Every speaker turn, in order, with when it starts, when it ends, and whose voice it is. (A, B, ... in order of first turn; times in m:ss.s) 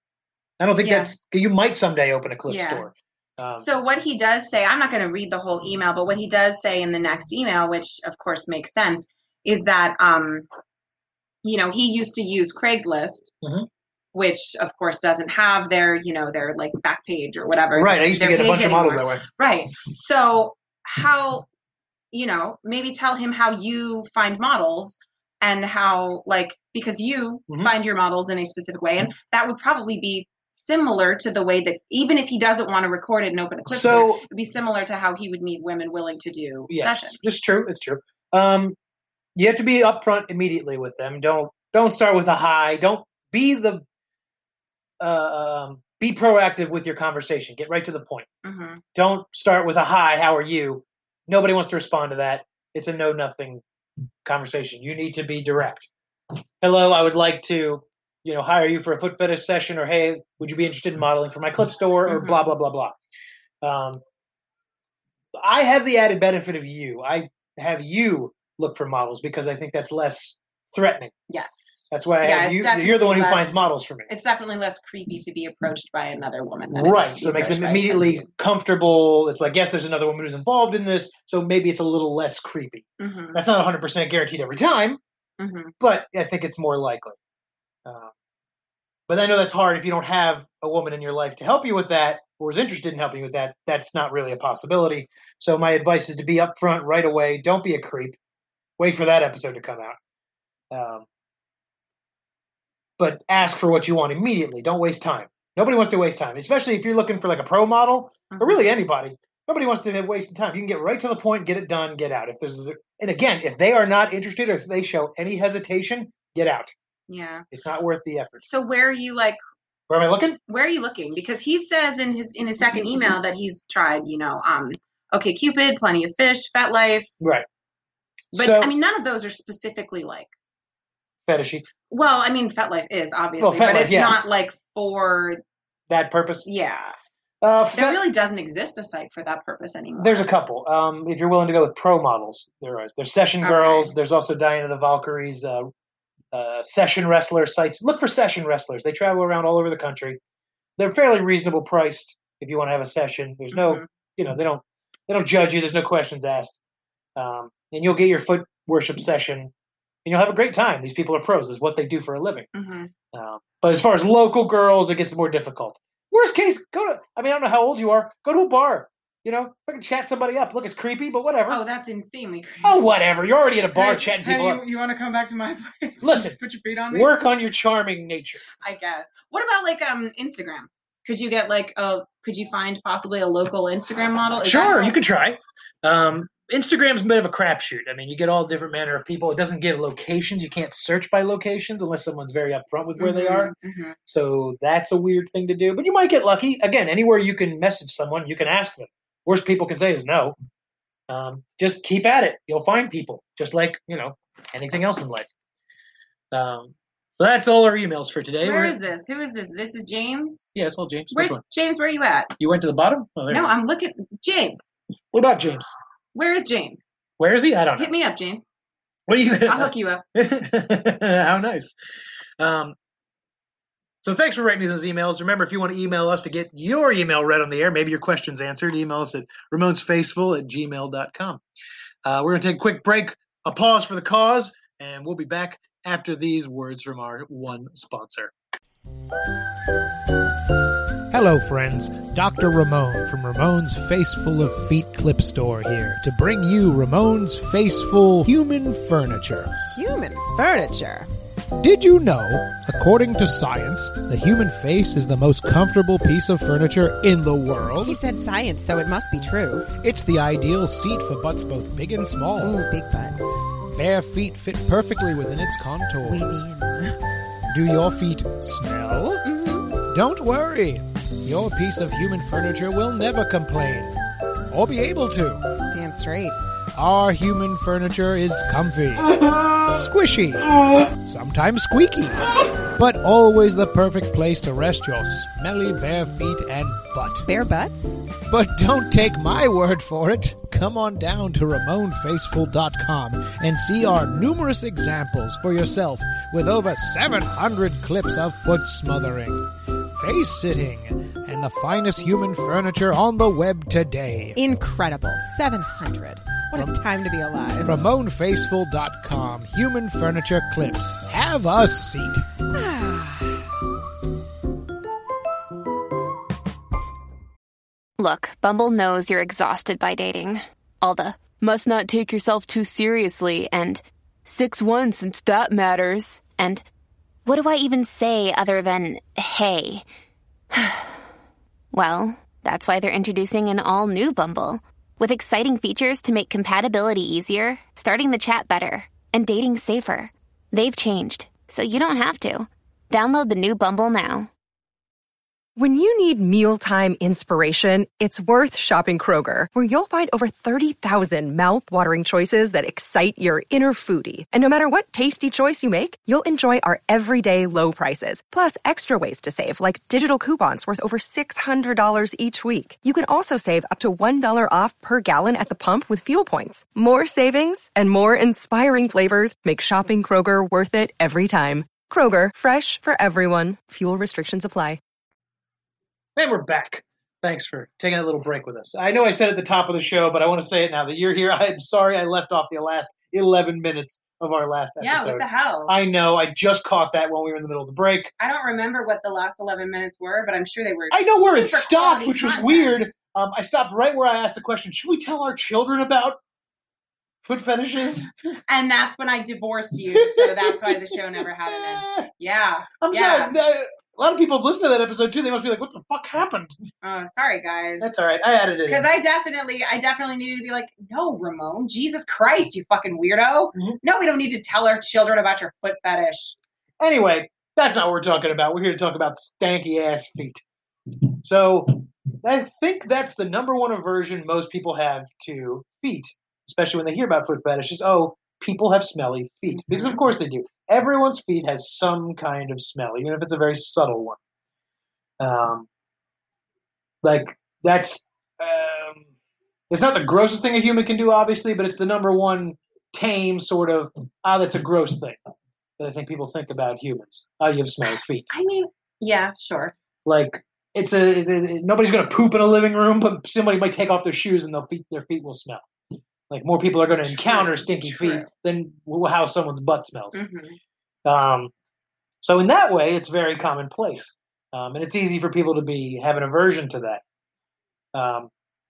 0:00.6-0:03.7 A
0:00.8-0:01.1 B
0:02.5-0:02.9 B
0:03.6-0:10.5 B
0:11.4-0:13.3 B
0:14.1-0:21.5 B
0:17.8-0:19.2 A
0:22.1-0:37.2 B
0:33.7-0:34.2 A
0:36.7-0:38.8 A
0:39.4-0:43.8 A
0:45.0-0:48.3 A
0:48.4-0:48.8 B
0:49.0-0:53.6 A
0:54.2-0:55.9 A
0:56.6-1:03.0 A
1:02.1-1:02.5 B
1:03.6-1:04.0 A
1:05.4-1:11.1 A
1:11.3-1:18.3 B
1:11.9-1:14.1 A
1:16.7-1:25.0 A
1:23.0-1:23.4 B
1:25.4-1:25.7 B
1:25.8-1:27.2 A
1:27.8-1:28.1 A
1:29.1-1:38.2 A
1:38.8-1:40.0 A
1:40.7-1:41.1 A
1:43.0-1:56.7 A
1:48.3-1:48.7 B
1:57.1-1:57.5 B
1:57.5-1:58.4 A
1:58.4-1:59.4 B
1:59.9-2:00.4 A
2:00.5-2:07.1 B
2:08.3-2:08.7 A
2:08.3-2:10.3 B
2:11.3-2:11.7 A
2:11.9-2:15.4 B
2:13.4-2:14.2 A
2:15.9-2:16.5 A
2:16.5-2:17.0 B
2:17.4-2:18.0 A
2:17.7-2:20.3 B
2:20.0-2:25.7 A
2:23.4-2:23.9 B
2:26.3-2:30.2 A
2:30.8-2:36.6 A
2:33.5-2:33.8 B
2:37.2-2:39.5 A
2:40.0-2:42.5 A
2:42.6-2:42.9 B
2:43.1-2:51.6 A
2:51.5-2:52.9 B
2:52.6-2:54.6 A
2:53.8-2:57.2 B
2:56.0-2:56.4 A
2:56.9-2:58.4 A
2:58.6-3:05.0 B
3:04.4-3:13.5 A
3:13.0-3:14.0 B
3:14.1-3:20.4 A
3:21.1-3:25.3 A
3:26.3-3:28.8 A
3:28.4-3:30.6 B
3:30.6-3:31.4 A
3:31.1-3:32.4 B
3:32.4-3:33.5 A
3:33.3-3:34.7 B
3:35.1-3:35.7 A
3:36.2-3:36.9 B
3:37.2-3:37.9 A
3:37.8-3:38.5 B
3:39.1-3:41.8 A
3:39.5-3:40.0 B
3:42.4-3:42.8 A
3:44.0-3:51.4 A
3:52.0-3:58.3 A
4:01.1-4:09.5 C
4:09.6-4:11.1 D
4:11.6-4:18.0 C
4:17.8-4:19.8 D
4:19.8-4:22.6 C
4:22.4-4:23.4 D
4:23.7-4:26.5 C
4:26.0-4:27.0 D
4:27.5-4:29.2 C
4:29.2-4:29.8 D
4:29.9-4:33.9 C
4:34.5-4:35.4 C
4:35.7-4:36.4 D
4:36.8-4:39.2 C
4:39.7-4:47.3 C
4:47.3-4:48.0 D
4:48.3-5:04.4 C
5:04.4-5:07.9 D
5:07.6-5:12.2 C
5:12.5-5:13.4 D
5:18.0-5:26.6 E
5:27.3-5:29.8 E
5:30.5-5:30.9 E
5:31.7-5:44.3 E
5:45.6-6:14.8 F
6:16.2-6:28.1 A
6:24.8-6:25.7 B
6:28.2-6:32.8 B
6:30.9-6:36.2 A
6:37.2-6:38.1 A
6:38.5-6:43.4 B
6:40.0-6:42.0 A
6:42.8-6:46.5 A
6:46.8-6:47.9 B
6:47.8-6:48.9 A
6:48.7-6:56.4 B
6:56.8-7:00.4 A
7:01.2-7:14.2 A
7:09.5-7:10.0 B
7:15.2-7:15.7 A
7:17.0-7:19.1 A
7:19.7-7:25.2 A
7:25.8-7:28.3 A
7:28.3-7:29.8 B
7:30.1-7:35.6 A
7:36.3-7:40.2 A
7:37.1-7:38.3 B
7:40.1-7:40.6 B
7:41.0-7:41.5 A
7:42.2-7:47.0 A
7:47.9-7:48.3 A